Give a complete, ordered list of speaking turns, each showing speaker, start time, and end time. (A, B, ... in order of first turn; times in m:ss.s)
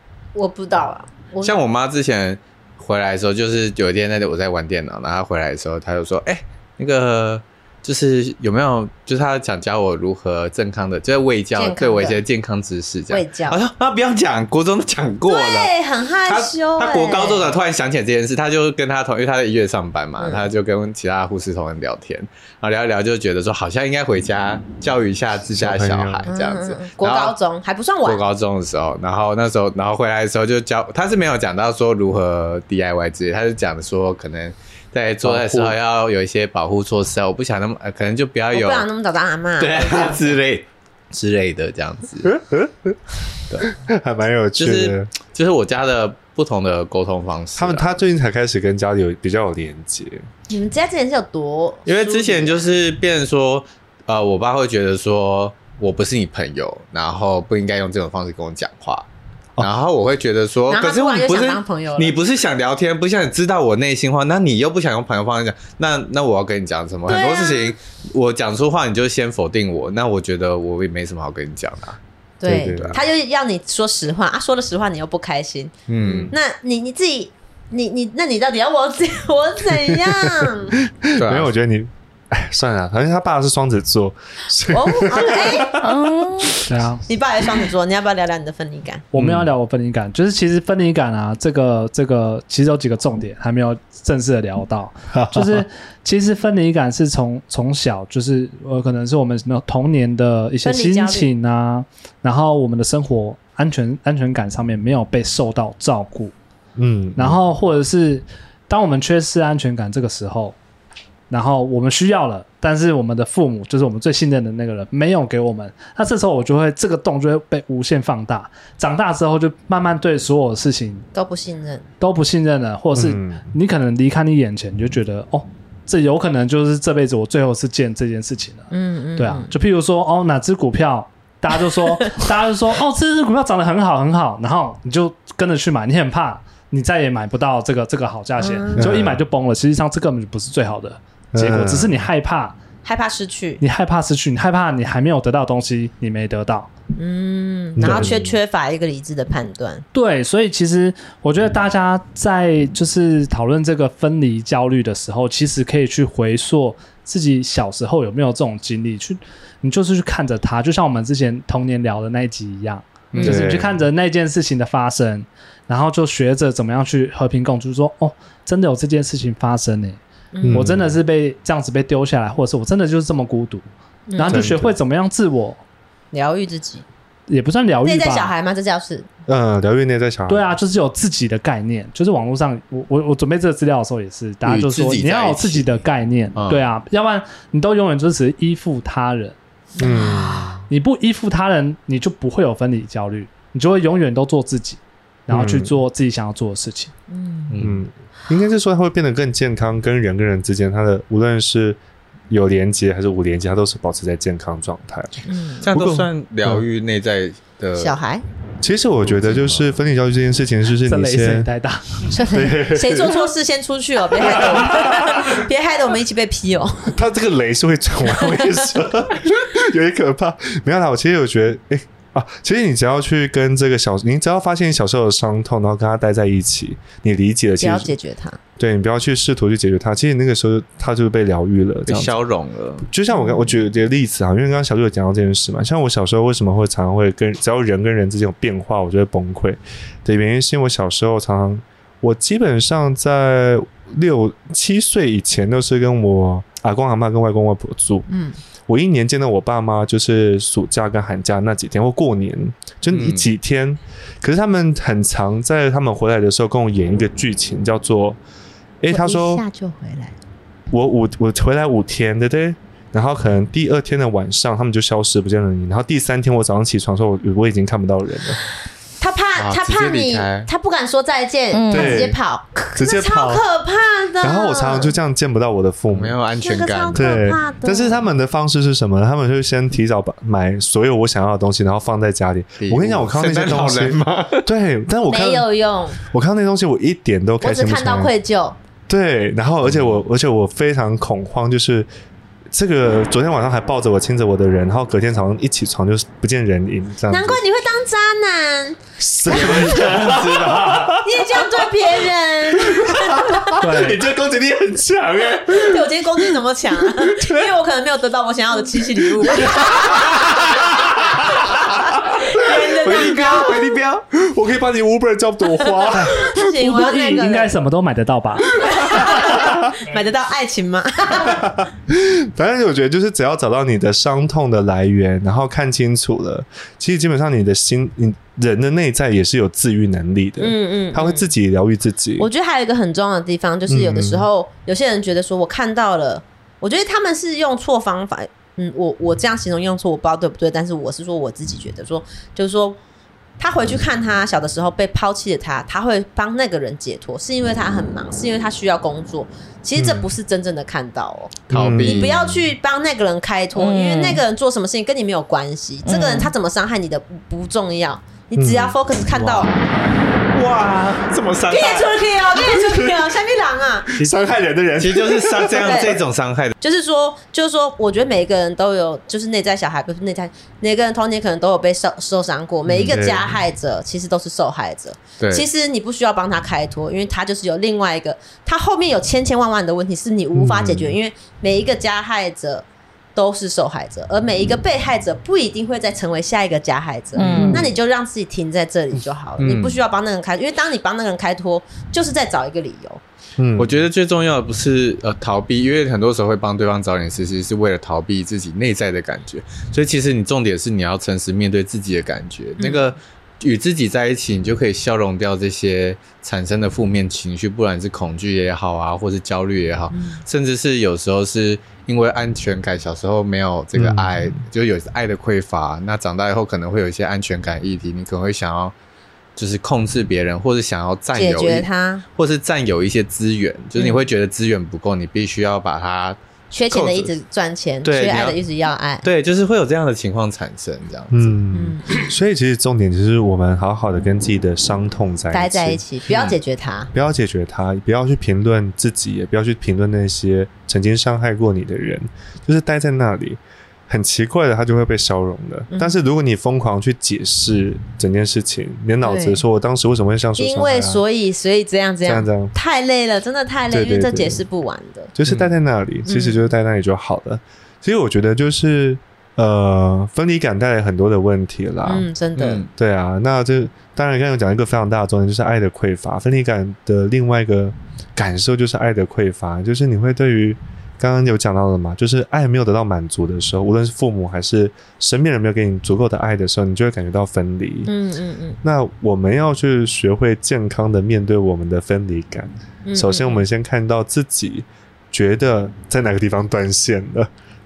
0:00.3-0:01.6 A
0:01.4-0:15.7 B
0:11.6-0:12.2 A
0:13.1-0:13.6 A
0:15.2-0:17.6 A
0:16.2-0:27.3 B
0:20.2-0:20.4 A
0:25.5-0:26.3 C
0:26.3-0:28.2 A
0:28.0-0:38.9 B
0:35.2-0:35.8 C
0:38.5-0:40.3 A
0:39.6-0:42.3 B
0:42.2-0:43.0 C
0:43.6-0:45.1 C
0:44.6-0:48.0 B
0:47.6-0:50.2 C
0:50.5-0:52.8 A
0:51.8-0:59.1 B
0:59.6-1:12.0 B
1:00.7-1:02.2 A
1:07.1-1:07.8 A
1:12.4-1:15.7 A
1:12.4-1:13.0 C
1:12.8-1:13.0 B
1:15.9-1:16.3 B
1:16.0-1:16.3 C
1:16.3-1:20.8 A
1:19.9-1:25.9 C
1:21.1-1:21.5 B
1:24.7-1:25.8 A
1:25.6-1:26.6 D
1:26.6-1:27.0 E
1:27.1-1:29.0 A
1:29.1-1:46.3 E
1:29.2-1:29.5 C
1:35.1-1:35.6 C
1:40.6-1:41.3 A
1:46.8-1:47.4 C
1:47.2-1:50.6 E
1:51.3-2:01.0 E
2:01.1-2:01.8 A
2:02.0-2:22.6 E
2:02.9-2:03.4 C
2:08.7-2:09.5 A
2:18.4-2:18.9 A
2:18.8-2:19.2 C
2:21.3-2:22.0 C
2:22.8-2:23.6 A
2:23.6-2:26.7 E
2:27.0-2:29.8 A
2:27.8-2:28.3 C
2:29.9-2:55.6 E
2:43.1-2:43.6 B
2:43.2-2:43.8 C
2:50.3-2:50.7 A
2:50.4-2:51.0 C
2:54.1-2:54.5 A
2:54.3-2:54.7 C
2:56.1-2:56.8 A
2:57.3-2:58.3 E
2:57.8-2:59.1 A
2:59.3-3:00.6 C
3:00.3-3:09.4 E
3:04.4-3:05.8 B
3:06.3-3:06.7 B
3:09.8-3:10.5 A
3:09.8-3:10.6 C
3:10.7-3:16.9 E
3:15.3-3:15.8 C
3:17.1-3:17.5 A
3:17.5-3:17.8 B
3:17.6-3:21.8 C
3:22.3-3:26.6 C
3:25.2-3:25.6 A
3:25.6-3:28.0 B
3:27.8-3:28.2 A
3:28.6-3:31.5 C
3:29.1-3:29.6 B
3:30.8-3:32.1 E
3:32.1-3:36.9 A
3:32.2-3:33.3 C
3:34.2-3:35.4 C
3:36.9-3:47.9 C
3:47.6-3:48.4 A
3:48.6-3:52.2 C
3:51.9-3:52.9 B
3:52.8-4:08.1 C
3:53.1-3:53.6 A
4:08.1-4:08.4 A
4:08.7-4:18.2 C
4:12.9-4:13.3 B
4:18.8-4:19.4 C
4:18.9-4:20.2 A
4:20.7-4:28.4 C
4:29.0-4:34.9 A
4:29.4-4:30.5 B
4:31.5-4:32.0 D
4:31.7-4:32.2 C
4:32.7-4:33.4 C
4:34.2-4:36.2 C
4:35.9-4:37.2 B
4:36.4-4:38.0 A
4:36.9-4:45.5 C
4:42.6-4:44.4 B
4:45.1-4:46.0 A
4:46.0-4:48.1 C
4:47.4-4:48.6 A
4:48.9-4:51.9 C
4:49.6-4:50.0 B
4:52.5-4:57.4 C
4:57.1-4:58.8 A
4:59.0-5:01.7 C
4:59.3-5:01.0 B
5:01.0-5:03.6 A
5:02.6-5:06.3 C
5:03.6-5:04.0 E
5:05.4-5:10.4 A
5:07.0-5:07.5 C
5:09.0-5:11.2 C
5:11.9-5:13.7 A
5:11.9-5:13.4 C
5:12.7-5:14.0 B
5:14.1-5:16.3 C
5:15.8-5:17.6 A
5:16.5-5:18.6 E
5:18.6-5:21.5 A
5:19.3-5:19.7 C
5:21.2-5:32.3 C
5:30.4-5:31.3 A
5:32.2-5:42.8 A
5:33.7-5:34.3 C
5:43.4-5:59.5 A
5:49.8-5:50.1 C
5:51.5-5:52.3 B
5:51.5-5:52.4 C
5:53.6-5:54.2 D
5:55.8-5:56.3 D
5:58.4-5:59.4 C
6:00.3-6:02.0 B
6:01.5-6:03.9 A
6:02.4-6:03.0 C
6:03.9-6:05.8 C
6:04.8-6:06.5 B
6:05.6-6:06.0 A
6:06.6-6:33.0 A
6:12.8-6:13.4 C
6:15.2-6:15.5 B
6:20.3-6:21.0 C
6:27.2-6:27.6 D
6:27.2-6:27.7 C
6:29.4-6:29.8 B
6:33.4-6:33.8 C
6:33.6-6:58.7 B
6:42.6-6:42.9 A
6:49.9-6:50.2 A
6:53.8-6:54.4 C
6:59.4-7:07.2 B
7:01.1-7:02.0 A
7:06.5-7:09.0 A
7:07.8-7:08.4 B
7:09.0-7:11.4 B
7:11.1-7:15.8 C
7:11.5-7:11.9 A
7:15.3-7:16.9 A
7:16.9-7:31.0 C
7:25.7-7:26.0 A
7:29.0-7:29.4 A
7:30.4-7:35.1 A
7:32.0-7:32.5 C
7:33.7-7:34.4 C
7:35.1-7:42.0 C
7:35.2-7:35.5 B
7:36.0-7:36.4 A
7:41.8-7:42.6 A
7:42.4-7:42.7 B
7:42.7-7:57.9 C
7:57.8-7:58.6 A
7:58.6-8:07.3 C
8:02.8-8:03.4 A